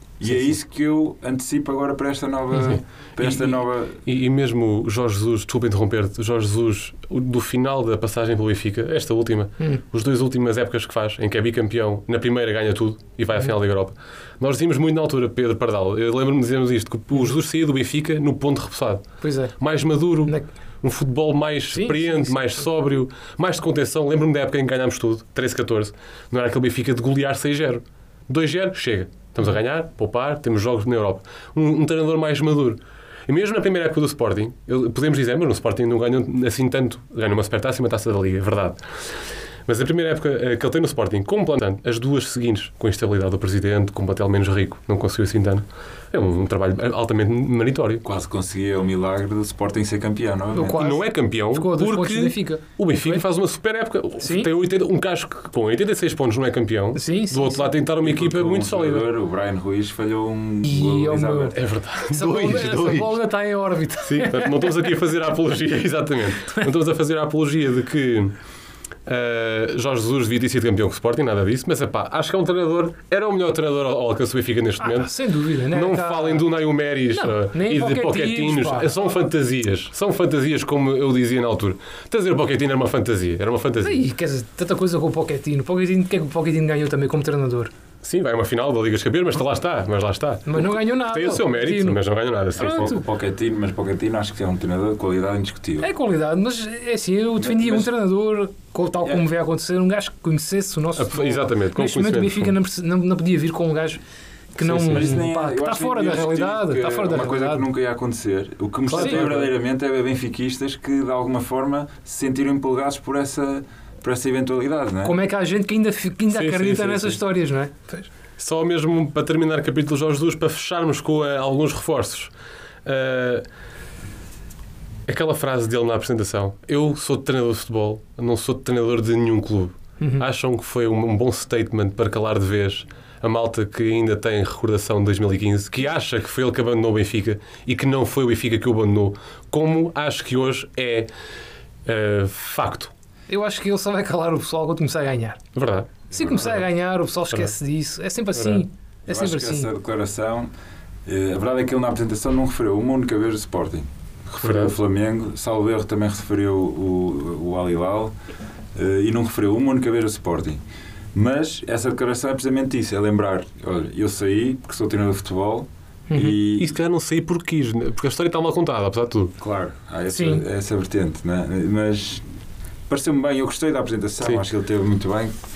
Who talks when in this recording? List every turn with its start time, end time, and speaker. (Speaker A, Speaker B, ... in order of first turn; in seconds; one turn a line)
Speaker A: 0.2-4.0
Speaker B: 2.6-19.1
Speaker C: 19.2-19.5
Speaker B: 19.6-38.8
Speaker C: 21.7-22.6
Speaker B: 39.7-48.0
Speaker A: 48.0-50.8
Speaker C: 50.5-53.2
Speaker B: 50.7-59.1
Speaker C: 54.2-54.5
Speaker C: 56.9-57.7
Speaker A: 58.0-61.6
Speaker C: 60.6-61.6
Speaker B: 61.5-63.2
Speaker C: 62.1-64.8
Speaker B: 64.0-68.3
Speaker B: 69.0-84.0
Speaker C: 74.8-76.5
Speaker C: 77.1-79.0
Speaker C: 83.8-87.7
Speaker B: 88.0-92.9
Speaker C: 90.5-92.0
Speaker C: 92.6-93.0
Speaker A: 92.6-95.9
Speaker C: 95.8-104.0
Speaker A: 97.4-97.9
Speaker B: 101.0-102.5
Speaker C: 104.5-107.6
Speaker B: 104.6-105.2
Speaker A: 104.9-115.2
Speaker C: 108.9-109.3
Speaker B: 108.9-109.5
Speaker C: 115.0-118.1
Speaker B: 116.3-117.2
Speaker B: 118.4-122.3
Speaker B: 122.8-123.4
Speaker B: 125.1-141.1
Speaker B: 141.8-142.9
Speaker C: 143.3-145.4
Speaker B: 145.5-146.6
Speaker C: 146.1-149.7
Speaker B: 148.3-148.6
Speaker A: 149.1-150.5
Speaker A: 151.1-158.1
Speaker B: 154.4-154.7
Speaker A: 158.7-160.6
Speaker A: 161.1-166.7
Speaker C: 166.1-166.3
Speaker B: 166.6-169.3
Speaker A: 169.4-172.2
Speaker C: 170.1-170.4
Speaker A: 172.9-175.3